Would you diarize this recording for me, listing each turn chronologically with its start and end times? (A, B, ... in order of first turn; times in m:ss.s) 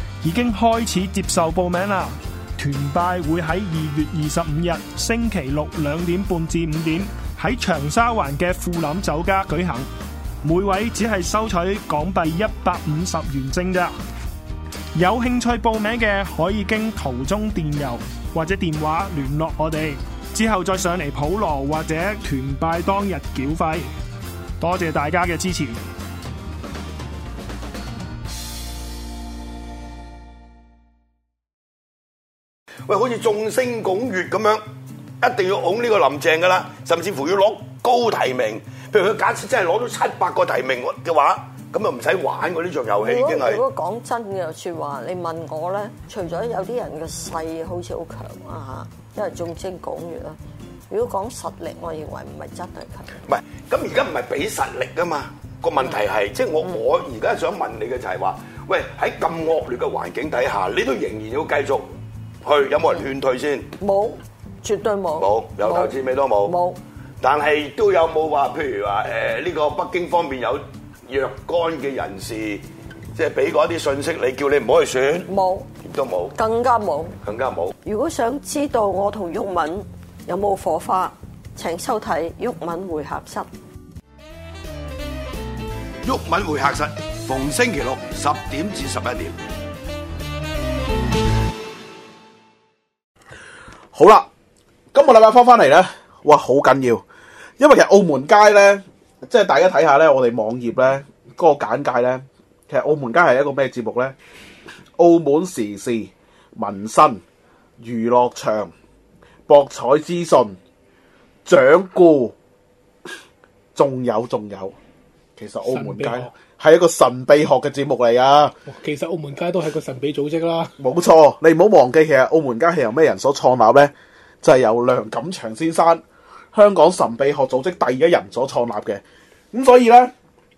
0:00.2-0:09.9 A
0:10.4-0:13.9 A
0:14.9-0:23.9 A
0:24.6-0:25.8 A
0:32.9-0:34.6 B
0:35.2-0:43.6 B
0:43.0-0:50.4 C
0:50.9-0:53.2 C
0:53.2-1:01.8 B
1:02.4-1:03.7 B
1:03.8-1:06.8 C
1:05.2-1:06.6 B
1:07.2-1:12.6 B
1:13.1-1:15.3 B
1:15.3-1:15.7 C
1:15.8-1:16.4 B
1:16.4-1:17.2 C
1:17.2-1:17.7 B
1:17.8-1:23.5 C
1:26.0-1:29.4 B
1:33.9-1:34.3 D
1:34.9-1:37.0 D
1:37.6-1:44.1 D
1:45.0-1:47.2 D
1:47.8-1:48.7 D
1:49.5-1:50.6 D
1:51.4-1:52.3 D
1:53.7-1:54.7 D
1:55.4-1:58.5 D
1:55.6-1:56.3 E
1:58.7-2:00.7 E
2:00.8-2:10.1 D